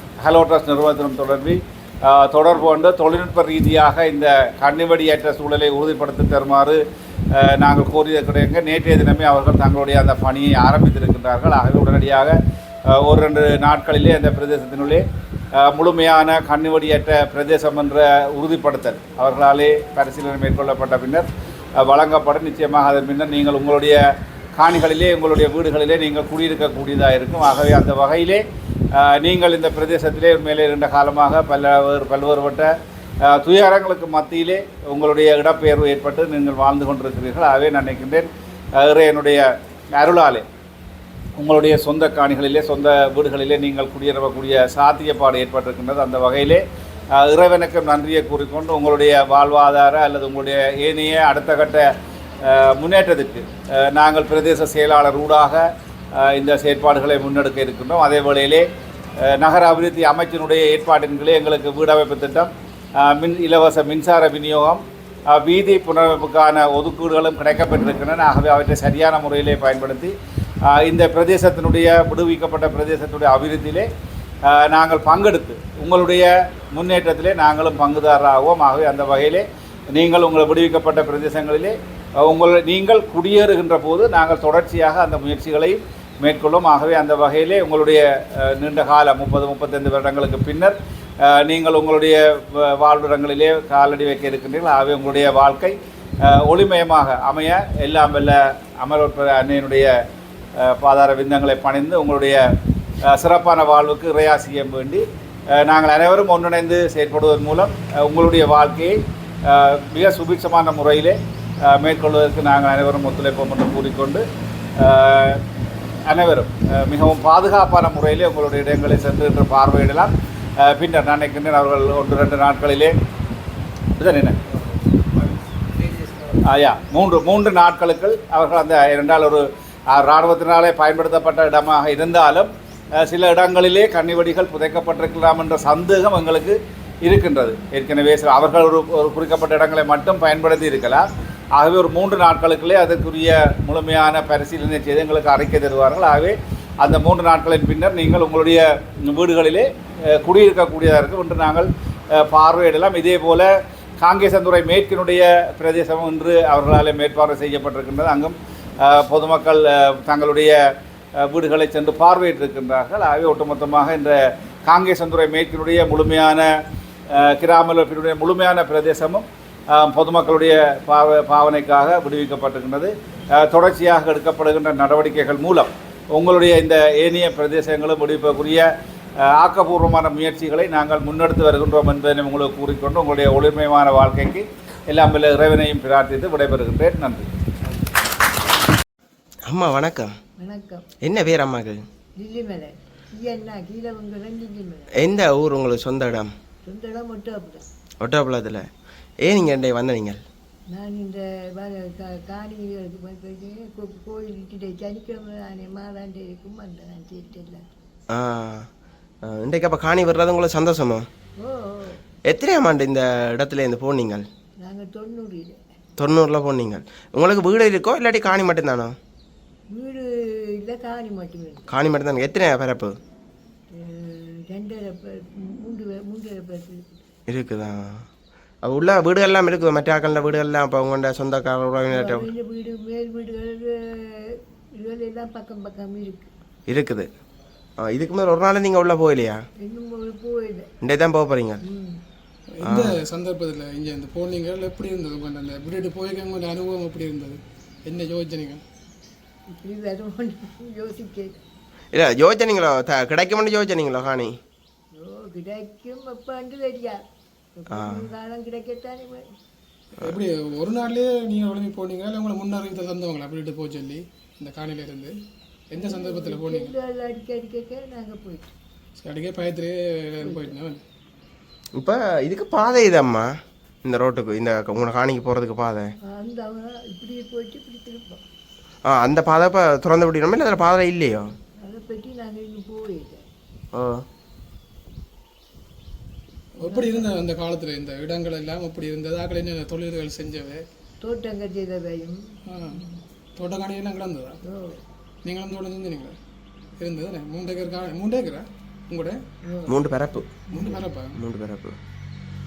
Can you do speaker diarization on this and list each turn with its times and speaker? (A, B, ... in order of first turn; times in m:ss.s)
0:00.2-0:06.8 A
0:07.3-0:12.4 A
0:12.9-0:15.0 A
0:15.6-0:21.3 A
0:21.8-0:24.0 A
0:24.6-0:28.4 A
0:28.9-0:32.7 A
0:33.2-0:40.5 A
0:41.4-0:46.6 A
0:47.2-0:51.9 A
0:52.4-0:58.7 A
0:59.2-1:13.9 A
1:14.4-1:39.9 A
1:40.6-1:42.4 A
1:43.0-1:45.0 A
1:45.6-1:54.2 A
1:54.8-1:55.4 A
1:56.1-2:02.9 A
2:04.0-2:04.4 A
2:06.4-2:33.5 A
2:34.0-2:40.6 A
2:41.2-2:46.5 A
2:47.1-2:58.7 A
2:59.2-3:07.3 A
3:09.5-3:10.1 B
3:10.4-3:10.9 C
3:11.0-3:11.8 B
3:12.2-3:14.9 C
3:14.9-3:16.3 B
3:16.6-3:17.6 C
3:18.0-3:18.7 B
3:19.2-3:20.2 B
3:20.7-3:27.6 C
3:28.1-3:28.7 B
3:29.2-3:31.0 B
3:31.4-3:32.0 C
3:32.3-3:34.2 B
3:34.6-3:35.6 C
3:36.0-3:39.0 B
3:39.7-3:41.7 C
3:41.7-3:43.0 B
3:43.7-3:47.0 C
3:47.3-3:48.0 B
3:48.6-3:52.3 B
3:51.9-3:56.3 C
3:56.7-3:57.1 B
3:57.8-3:59.4 B
3:59.6-4:00.7 C
4:00.8-4:01.6 B
4:01.6-4:02.0 C
4:02.5-4:08.6 D
4:02.6-4:02.9 B
4:09.5-4:11.4 C
4:11.9-4:14.4 B
4:14.9-4:19.3 C
4:17.7-4:18.0 B
4:20.0-4:25.1 D
4:25.7-4:26.7 D
4:25.8-4:28.5 C
4:29.0-4:30.8 D
4:30.2-4:30.5 C
4:31.8-4:33.3 B
4:33.8-4:35.9 B
4:36.1-4:38.2 C
4:38.9-4:41.3 B
4:41.6-4:43.2 C
4:43.7-4:44.0 B
4:46.6-4:50.6 D
4:46.6-4:47.2 C
4:51.0-4:53.0 C
4:52.5-4:52.8 D
4:53.4-4:54.4 D
4:54.4-4:54.8 C
4:55.2-4:56.1 D
4:56.8-4:59.2 D
4:59.5-4:59.8 C
4:59.7-5:00.3 B
5:00.5-5:01.2 D
5:01.2-5:01.8 B